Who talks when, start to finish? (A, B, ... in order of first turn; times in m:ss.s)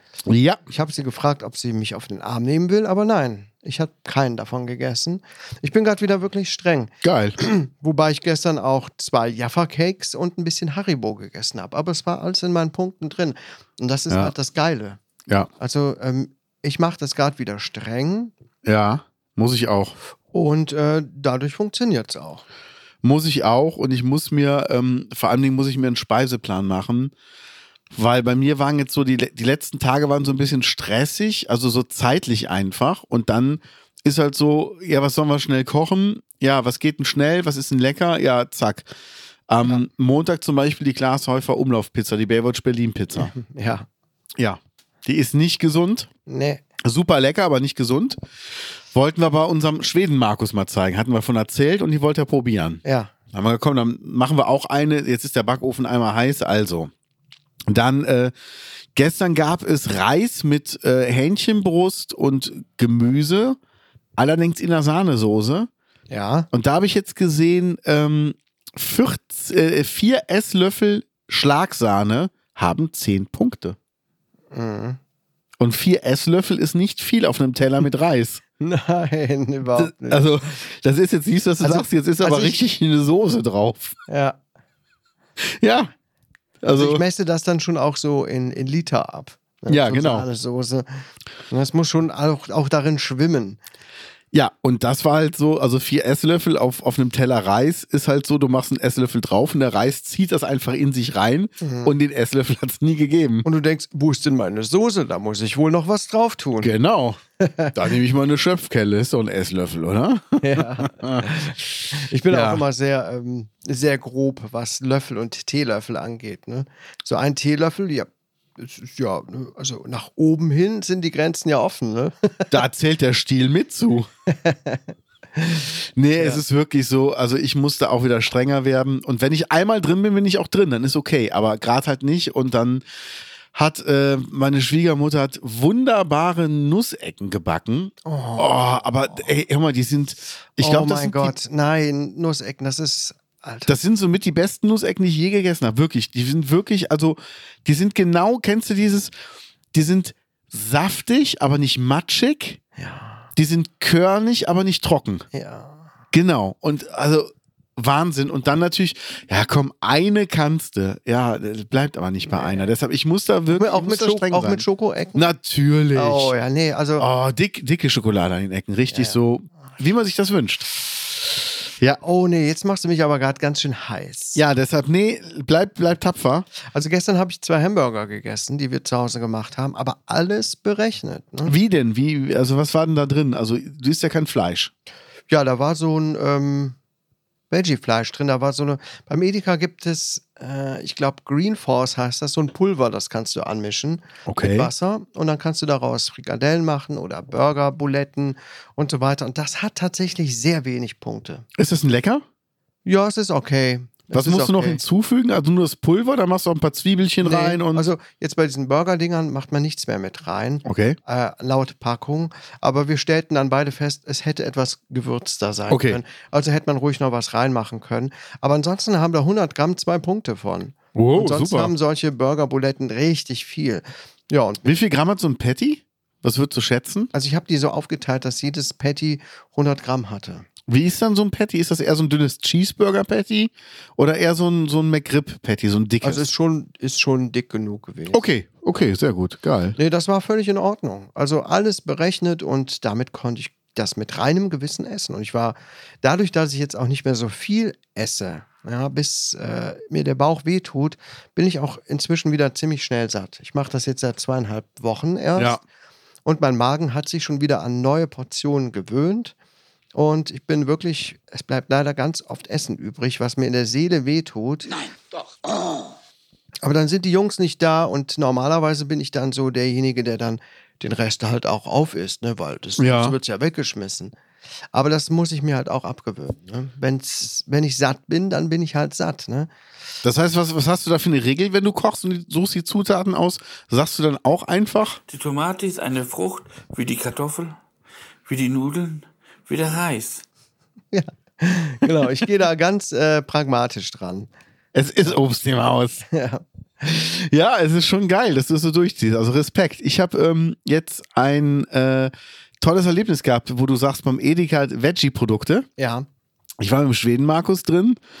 0:00.3-0:00.6 A
0:00.7-0:15.0 B
0:07.0-0:07.4 A
0:15.6-0:18.3 B
0:18.6-0:19.9 A
0:20.3-0:22.4 B
0:23.0-0:27.1 A
0:27.9-0:38.9 A
0:39.5-0:43.3 A
0:43.2-0:43.9 B
0:44.4-0:46.1 A
0:46.3-0:46.6 B
0:46.8-0:48.2 A
0:48.9-0:56.9 A
0:52.8-0:53.1 B
0:57.7-0:58.3 A
0:58.9-1:03.6 A
1:04.2-1:05.7 A
1:06.1-1:06.5 B
1:06.5-1:13.8 A
1:14.5-1:15.0 B
1:15.6-1:18.4 A
1:18.6-1:20.5 B
1:19.8-1:24.0 A
1:21.6-1:22.6 B
1:24.1-1:24.4 B
1:25.4-1:25.9 A
1:26.6-1:27.0 A
1:26.7-1:33.6 B
1:29.7-1:30.2 A
1:34.3-1:43.5 A
1:41.6-1:41.9 B
1:43.4-1:46.7 B
1:46.6-1:47.2 A
1:47.4-1:47.7 B
1:47.7-1:51.3 A
1:50.4-2:02.6 B
1:52.3-1:52.6 A
2:02.5-2:04.1 A
2:04.3-2:04.8 B
2:05.4-2:06.4 B
2:06.0-2:12.8 A
2:13.5-2:21.3 A
2:18.0-2:19.2 B
2:20.6-2:23.7 B
2:23.7-2:29.1 A
2:29.7-2:32.6 A
2:32.8-2:33.3 B
2:33.4-2:35.2 A
2:35.3-2:35.8 B
2:36.1-2:44.6 A
2:42.3-2:42.6 B
2:43.5-2:45.2 B
2:45.1-2:46.3 A
2:45.9-2:47.0 B
2:47.0-2:50.6 A
2:48.9-2:49.2 B
2:52.0-2:54.4 B
2:54.3-2:56.5 A
2:56.6-3:01.5 B
3:01.4-3:04.7 A
3:05.3-3:06.8 B
3:07.5-3:21.4 B
3:14.2-3:14.7 A
3:21.6-3:22.2 A
3:22.8-3:24.8 B
3:24.1-3:27.8 A
3:27.2-3:44.7 B
3:30.6-3:31.0 A
3:35.7-3:36.0 A
3:40.9-3:41.7 A
3:44.6-3:47.1 A
3:47.1-3:50.4 B
3:50.7-3:56.2 A
3:56.0-3:58.2 B
3:58.1-3:59.8 A
3:59.8-4:15.6 B
4:16.2-4:19.3 B
4:19.9-4:24.8 B
4:25.5-4:25.8 C
4:26.6-4:34.1 B
4:32.8-4:33.1 A
4:34.7-4:39.5 B
4:40.0-4:45.0 A
4:45.1-4:47.6 C
4:48.2-4:50.2 C
4:50.9-4:54.3 B
4:54.7-4:56.0 A
4:56.1-4:56.4 B
4:56.8-5:05.7 A
5:05.8-5:06.0 B
5:06.6-5:08.0 A